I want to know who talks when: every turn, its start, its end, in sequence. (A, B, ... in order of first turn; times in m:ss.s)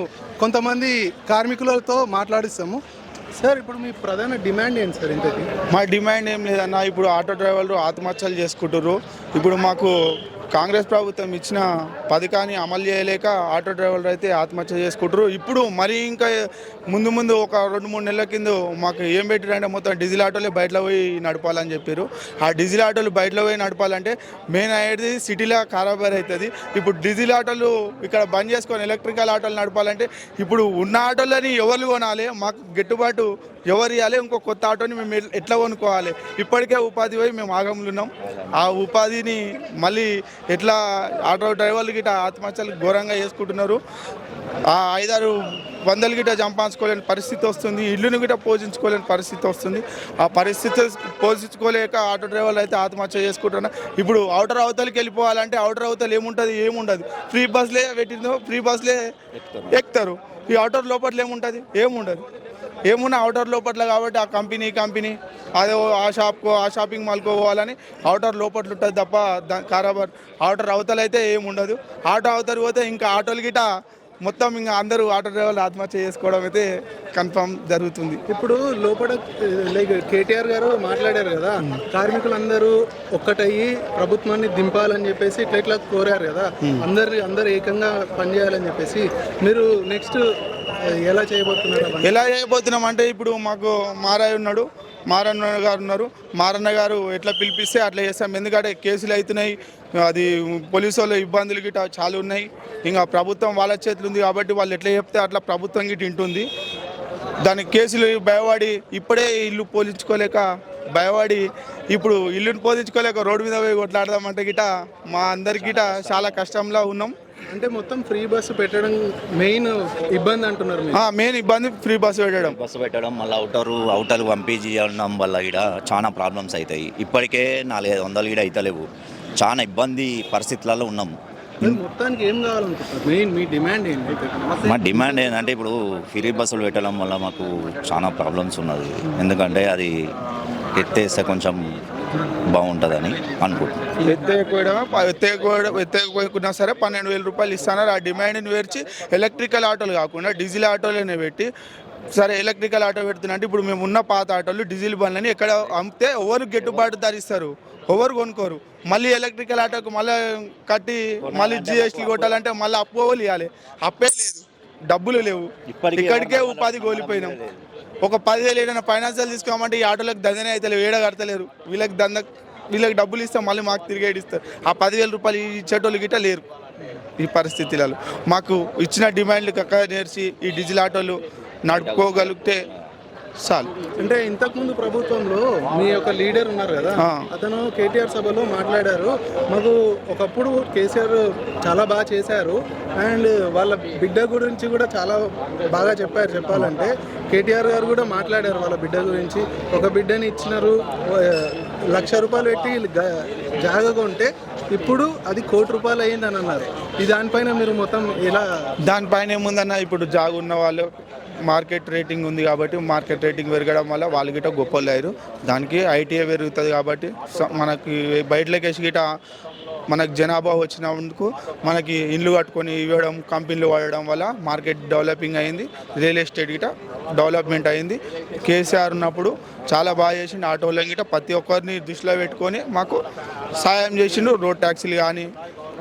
0:00.4-0:02.8 A
0:03.4-0:05.5 A
0:05.7-0:09.9 B
0:10.5-0:43.8 B
0:38.3-0:38.7 C
0:44.7-0:59.0 B
0:59.3-0:59.8 C
0:59.7-1:02.2 B
1:02.9-1:13.7 B
1:14.2-1:18.2 B
1:18.3-1:30.2 A
1:30.8-1:32.2 A
1:32.0-1:46.5 B
1:47.4-1:57.1 B
1:55.5-1:56.4 C
1:57.5-2:01.0 A
2:00.9-2:02.6 B
2:02.4-2:08.8 C
2:09.4-2:11.1 C
2:11.6-2:14.9 A
2:14.6-2:19.9 C
2:20.7-2:21.6 C
2:22.5-2:23.8 C
2:24.0-2:31.5 B
2:32.1-2:47.4 B
2:36.6-2:36.9 C
2:41.2-2:42.4 C
2:45.7-2:47.6 C
2:48.0-2:56.4 B
2:57.2-3:02.6 B
3:01.7-3:02.8 C
3:03.4-3:03.7 B
3:04.0-3:28.5 A
3:07.0-3:07.3 B
3:28.8-3:30.9 B
3:31.5-3:39.0 B
3:39.9-3:53.0 B
3:53.6-3:55.3 B